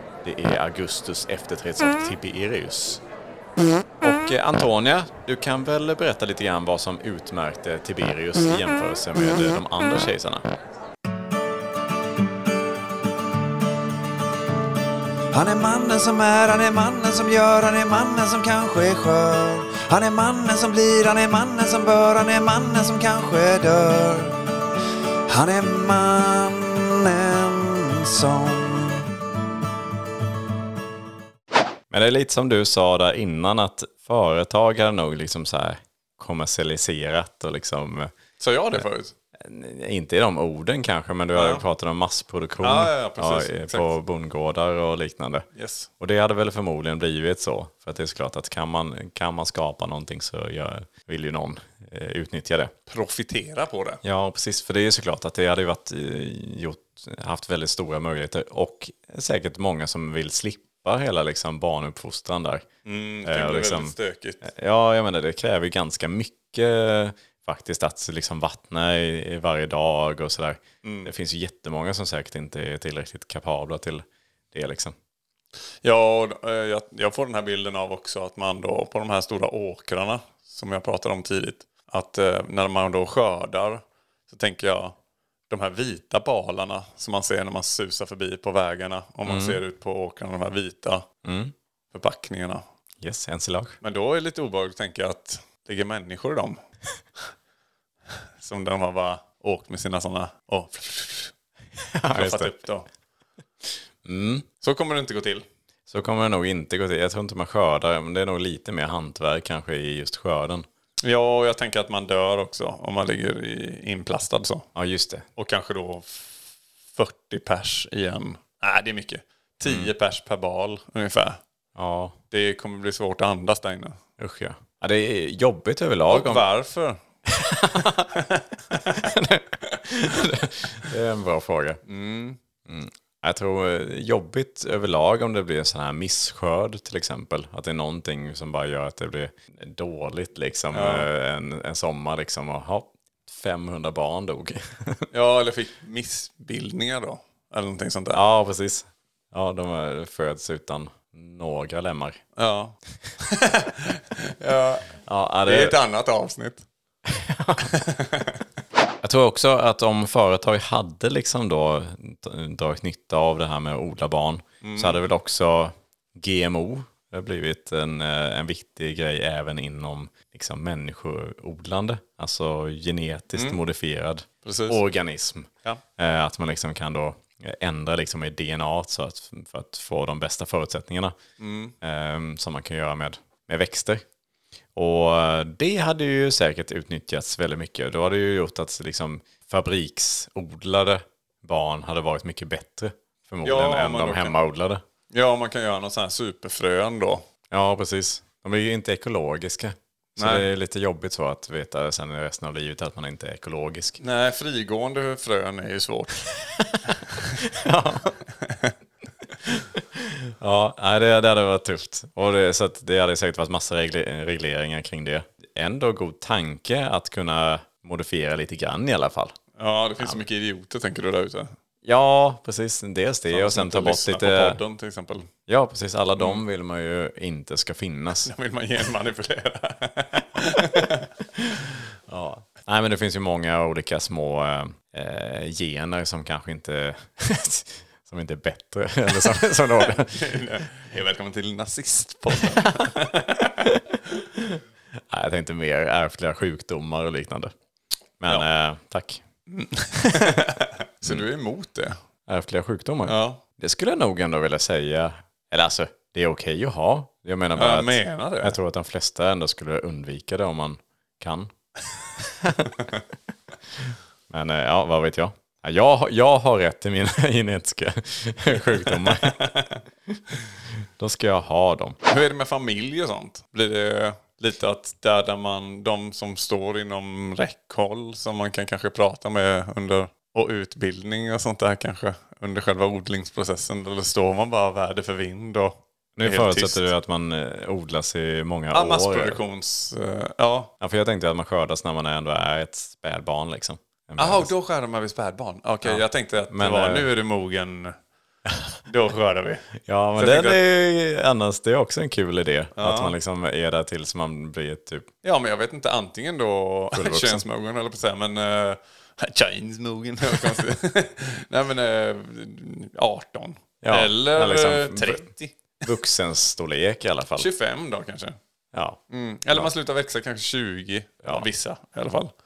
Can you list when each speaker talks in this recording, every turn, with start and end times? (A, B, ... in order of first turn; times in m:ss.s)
0:00.2-0:03.0 A
0:04.0-0:10.5 A
0:15.3-0:24.4 B
0:25.3-0:29.1 B
0:31.9-0:38.1 A
0:38.4-0:39.1 C
0:39.4-0:45.5 A
0:41.3-0:41.6 C
0:42.6-0:43.9 C
0:45.5-0:45.9 C
0:46.0-0:52.7 A
0:52.9-0:54.0 C
0:54.0-1:02.7 A
1:02.8-1:04.4 C
1:03.2-1:15.0 A
1:10.8-1:11.1 C
1:15.8-1:25.0 C
1:25.5-1:31.1 C
1:29.2-1:29.6 A
1:31.2-1:31.5 A
1:31.9-1:32.6 C
1:33.0-1:33.8 A
1:33.8-1:36.6 C
1:38.4-1:41.3 C
1:41.9-1:42.6 A
1:42.1-1:42.9 C
1:44.0-1:44.5 A
1:44.6-1:45.4 C
1:45.9-1:50.7 A
1:51.0-1:54.7 C
1:54.8-1:55.3 A
1:55.4-1:56.4 C
1:56.9-2:01.4 C
1:59.6-1:59.9 A
2:01.8-2:02.2 A
2:02.3-2:04.0 C
2:04.2-2:06.4 A
2:06.1-2:07.0 C
2:07.3-2:08.1 A
2:08.8-2:11.8 A
2:11.9-2:12.4 C
2:12.7-2:25.1 A
2:20.7-2:21.1 C
2:25.1-2:28.2 C
2:28.1-2:32.2 A
2:32.4-2:34.9 C
2:35.0-2:35.8 A
2:35.5-2:36.6 C
2:37.1-2:37.7 A
2:37.6-2:38.4 C
2:39.0-3:01.2 A
2:44.6-2:45.0 C
2:53.3-2:53.6 C
2:54.4-2:54.8 C
3:01.4-3:01.8 C
3:01.8-3:04.0 A
3:04.8-3:14.8 A
3:13.4-3:14.3 C
3:15.1-3:17.3 C
3:17.5-3:24.0 A
3:20.2-3:20.5 C
3:24.0-3:26.3 C
3:26.6-3:28.2 A
3:28.4-3:28.8 C
3:29.4-3:39.4 A
3:39.6-3:41.5 C
3:41.8-3:44.6 A
3:43.3-3:45.3 C
3:45.5-3:48.3 A
3:48.2-3:51.1 C
3:52.1-4:00.4 A
4:00.0-4:03.7 C
4:03.6-4:07.5 A
4:08.2-4:09.2 A
4:09.5-4:12.0 C
4:12.3-4:21.5 A
4:13.1-4:13.4 C
4:17.6-4:18.6 C
4:22.2-4:22.8 A
4:23.8-4:29.4 A
4:28.7-4:29.8 C
4:31.0-4:32.0 A
4:32.1-4:46.9 C
4:46.2-4:49.4 A
4:48.7-4:50.7 C
4:50.8-4:54.5 A
4:54.2-4:58.0 C
4:55.8-4:57.1 A
4:58.9-5:00.6 C
4:59.8-5:05.1 A
5:02.8-5:03.1 C
5:05.2-5:15.6 C
5:06.9-5:07.4 A
5:13.8-5:15.3 A
5:15.8-5:17.5 A
5:17.4-5:18.4 C
5:18.7-5:19.0 A
5:19.1-5:22.3 C